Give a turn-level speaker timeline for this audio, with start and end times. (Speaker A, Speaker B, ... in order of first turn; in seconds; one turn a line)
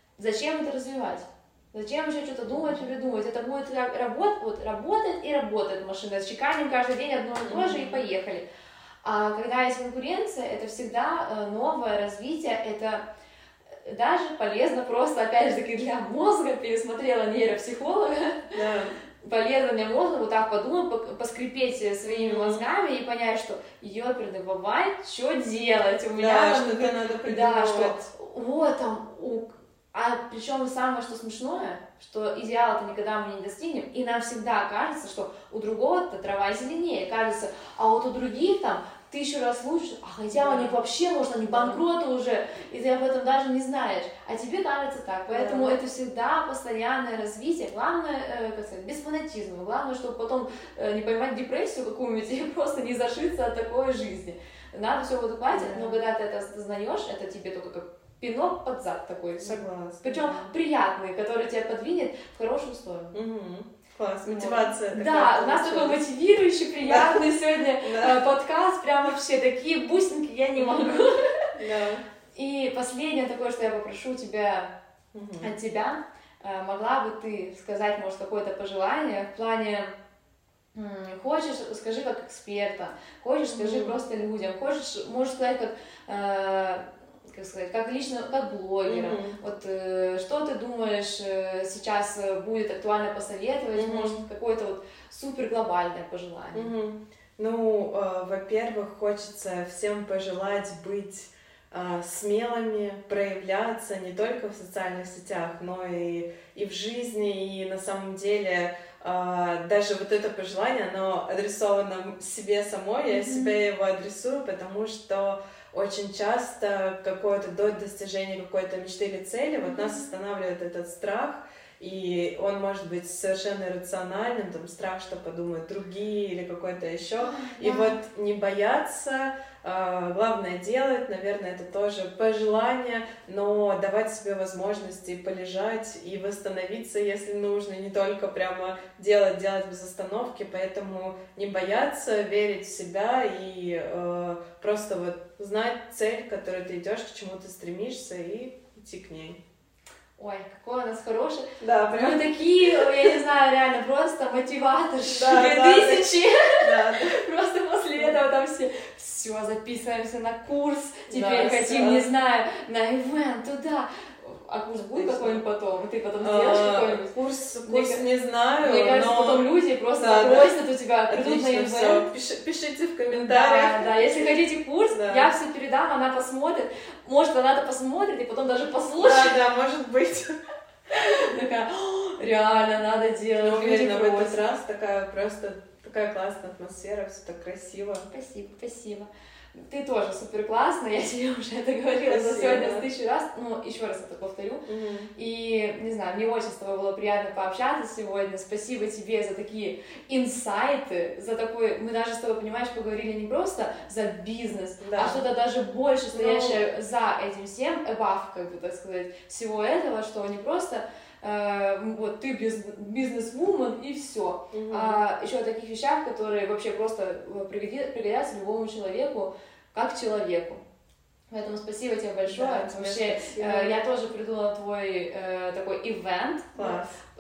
Speaker A: 0.2-8.4
Speaker B: 2.5-2.8
Speaker B: 7.4-7.9
Speaker A: 9.0-13.0
Speaker A: 13.8-18.6
Speaker B: 18.6-18.9
Speaker A: 19.2-63.2
Speaker B: 22.1-22.6
Speaker B: 26.2-28.1
Speaker B: 40.3-40.8
Speaker B: 41.5-41.8
Speaker B: 45.3-45.8
Speaker B: 55.5-56.0
Speaker B: 59.4-60.5
Speaker B: 63.1-66.0
Speaker A: 64.2-71.5
Speaker B: 66.8-67.2
Speaker B: 67.8-68.2
Speaker B: 70.6-72.0
Speaker A: 72.3-74.7
Speaker B: 75.1-75.5
Speaker A: 75.4-79.9
Speaker A: 80.8-96.7
Speaker B: 83.5-84.0
Speaker B: 88.8-89.4
Speaker B: 93.8-94.2
Speaker B: 96.5-149.4
Speaker A: 113.1-113.5
Speaker A: 119.6-120.1
Speaker A: 127.2-128.0
Speaker A: 150.2-167.1
Speaker B: 151.6-153.2
Speaker B: 155.1-157.2
Speaker B: 161.1-162.1
Speaker B: 164.9-165.4
Speaker B: 166.2-170.5
Speaker A: 167.7-168.0
Speaker A: 168.6-172.1
Speaker B: 171.1-174.2
Speaker A: 173.1-179.4
Speaker B: 174.9-175.3
Speaker B: 179.0-180.3
Speaker A: 180.9-184.4
Speaker B: 183.4-188.1
Speaker A: 188.1-194.7
Speaker B: 192.1-192.9
Speaker B: 194.7-195.1
Speaker A: 195.2-220.6
Speaker B: 204.8-205.2
Speaker B: 206.1-206.6
Speaker B: 214.5-215.0
Speaker A: 221.3-226.8
Speaker B: 222.3-223.8
Speaker B: 226.6-227.0